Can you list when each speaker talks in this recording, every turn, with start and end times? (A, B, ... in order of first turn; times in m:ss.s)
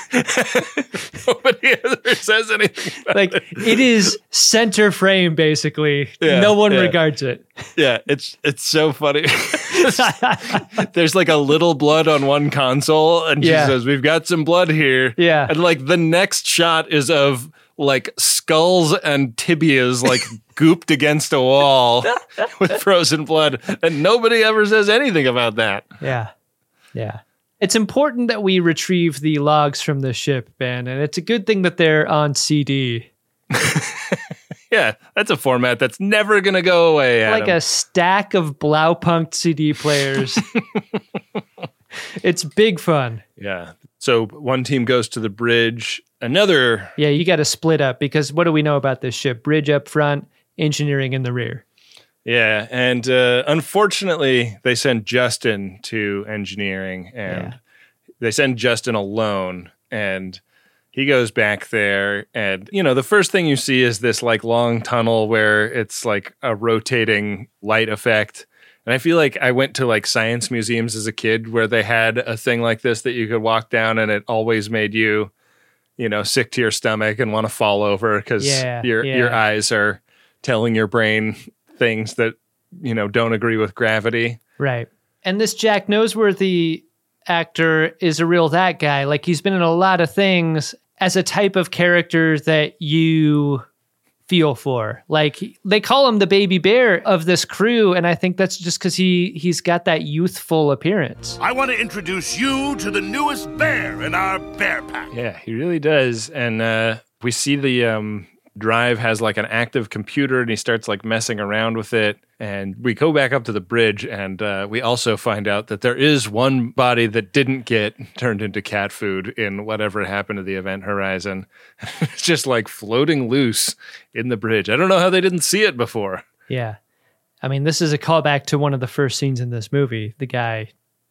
0:00.1-0:03.8 A
0:03.1-0:07.5 B
0:06.2-0:07.0 A
0:07.8-0:25.9 A
0:09.7-0:10.8 B
0:13.4-0:13.7 B
0:15.2-0:15.5 B
0:26.0-0:26.3 B
0:26.9-0:33.1 B
0:33.5-0:34.2 A
0:34.7-0:37.6 A
0:37.2-0:40.4 B
0:42.1-0:43.2 B
0:43.4-0:46.9 A
0:47.0-0:51.6 B
0:52.2-0:57.6 A
0:57.2-0:57.5 B
0:58.2-1:00.4 A
1:00.9-1:15.3 A
1:16.0-1:24.4 A
1:18.4-1:19.4 B
1:24.6-1:33.6 B
1:34.3-1:41.4 B
1:41.4-1:45.1 C
1:45.1-2:06.2 A
2:06.5-2:06.8 B
2:07.4-2:10.7 B